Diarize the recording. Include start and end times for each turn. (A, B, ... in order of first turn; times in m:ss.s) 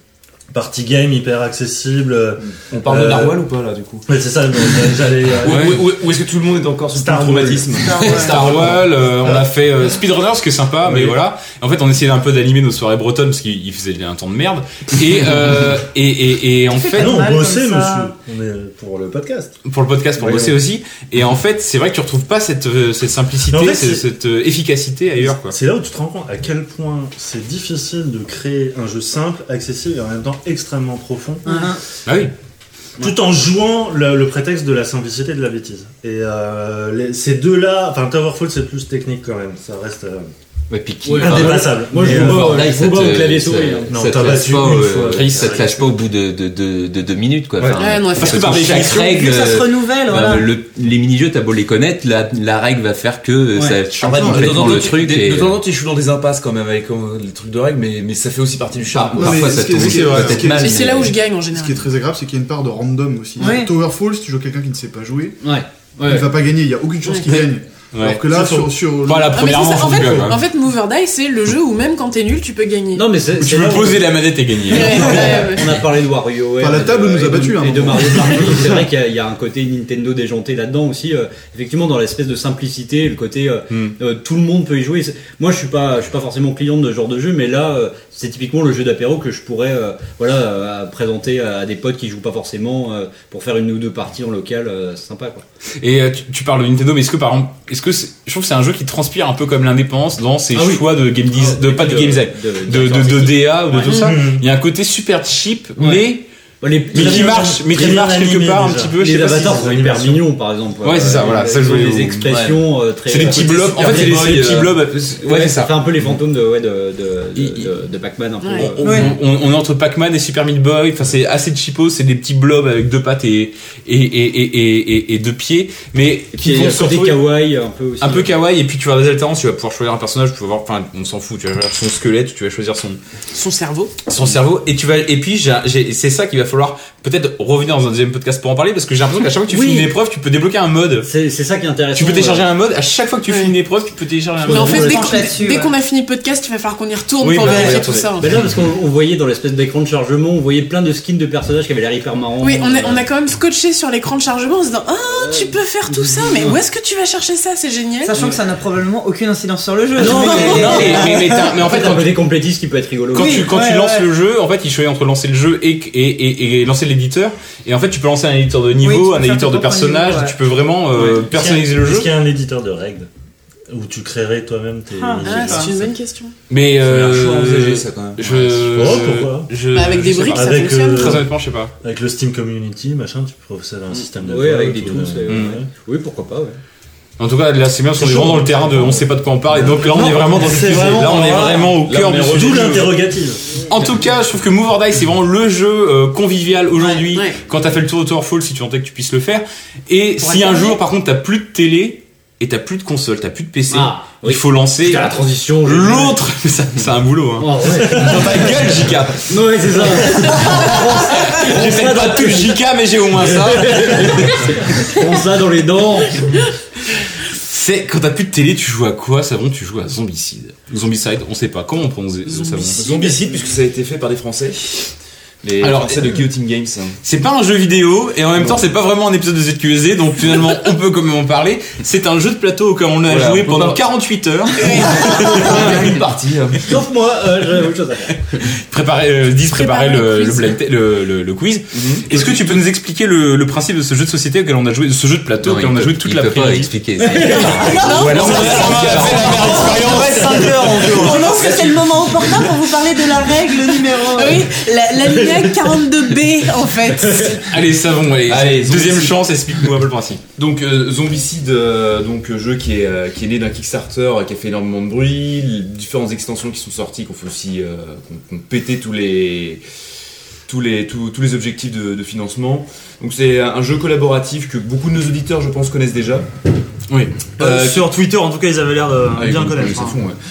0:00.5-0:03.4 A
0:02.7-0:04.1 B
0:04.1-0:05.9 A
0:05.4-0:08.8 B
0:05.5-0:05.8 C
0:07.0-0:08.8 A
0:07.8-0:08.3 D
0:08.0-0:17.2 C
0:16.8-0:18.1 D
0:17.0-0:19.6 A
0:19.7-0:25.6 C
0:20.2-0:20.6 A
0:23.5-0:24.1 A
0:25.2-0:31.7 A
0:31.4-0:31.8 D
0:32.1-0:32.3 C
0:33.0-0:40.3 A
0:40.7-0:55.6 E
0:41.0-0:44.3 F
0:41.2-0:42.7 A
0:43.9-0:45.9 A
0:45.2-0:45.6 F
0:47.8-0:48.5 G
0:48.2-0:49.1 C
0:48.8-0:50.5 D
0:54.0-1:00.6 B
0:54.1-0:54.7 H
0:58.9-1:01.2 E
0:59.2-1:05.4 H
0:59.8-1:00.5 C
1:00.6-1:01.9 G
1:03.4-1:03.7 D
1:05.4-1:06.4 F
1:06.0-1:09.3 H
1:07.0-1:07.4 G
1:07.3-1:08.3 C
1:09.0-1:10.4 C
1:09.3-1:13.1 G
1:12.9-1:35.4 F
1:13.4-1:15.5 C
1:14.7-1:15.7 G
1:16.6-1:18.8 H
1:35.8-1:46.2 C
1:40.5-1:44.2 F
1:43.9-1:44.4 A
1:45.8-1:46.0 F
1:46.6-1:48.1 F
1:46.9-1:49.8 C
1:46.9-1:50.2 A
1:49.0-1:59.2 F
1:50.8-1:52.3 C
1:52.3-1:52.6 E
1:53.1-1:55.8 C
1:53.8-1:54.7 B
1:57.4-1:57.7 C
1:58.4-1:58.7 G
1:58.6-2:07.3 C
1:58.8-1:59.1 D
2:06.4-2:08.3 F
2:08.0-2:13.0 C
2:13.3-2:13.9 G
2:14.1-2:21.1 C
2:19.5-2:19.9 F
2:21.1-2:22.5 F
2:21.9-2:25.2 C
2:23.3-2:23.5 G
2:24.5-2:25.2 F
2:24.5-2:28.4 G
2:24.5-2:25.7 D
2:27.2-2:28.1 C
2:28.2-2:33.1 F
2:32.4-2:38.2 G
2:35.1-2:36.6 F
2:38.0-2:41.3 D
2:40.0-2:43.6 F
2:40.1-2:41.0 G
2:40.2-2:42.2 C
2:43.1-2:52.1 C
2:43.1-2:44.1 D
2:48.8-2:50.4 D
2:50.9-2:53.1 A
2:53.7-2:55.9 A
2:55.0-2:55.6 D
2:55.2-2:56.3 G
2:56.5-3:01.7 C
2:56.7-2:59.0 B
2:58.7-2:59.5 A
2:59.7-3:01.2 G
3:00.3-3:01.3 A
3:01.8-3:05.7 A
3:04.2-3:06.6 F
3:05.3-3:05.6 C
3:07.2-3:13.0 C
3:08.2-3:08.9 A
3:09.9-3:11.7 I
3:10.4-3:11.4 A
3:11.3-3:12.6 B
3:12.0-3:13.4 A
3:13.7-3:29.4 C
3:16.9-3:17.4 G
3:23.7-3:26.2 F
3:27.4-3:32.6 F
3:30.0-3:34.7 C
3:33.2-3:36.4 F
3:37.4-3:42.8 C
3:42.8-3:47.0 B
3:45.6-3:46.2 C
3:47.0-3:56.0 C
3:53.1-3:53.8 B
3:54.6-3:55.4 G
3:54.8-3:56.8 B
3:56.6-3:58.2 F
3:58.4-4:06.7 C
3:59.6-4:00.6 G
4:01.7-4:02.1 B
4:05.4-4:09.8 E
4:07.1-4:07.6 F
4:07.3-4:09.2 G
4:07.6-4:08.7 D
4:07.9-4:10.7 C
4:08.7-4:09.6 B
4:09.5-4:11.3 I
4:10.8-4:14.5 D
4:11.0-4:11.7 B
4:14.1-4:17.5 G
4:17.5-4:20.2 C
4:18.3-4:19.2 B
4:20.4-4:29.6 B
4:30.5-4:36.3 B
4:36.9-4:37.9 B
4:37.4-4:40.0 I
4:39.2-4:40.2 B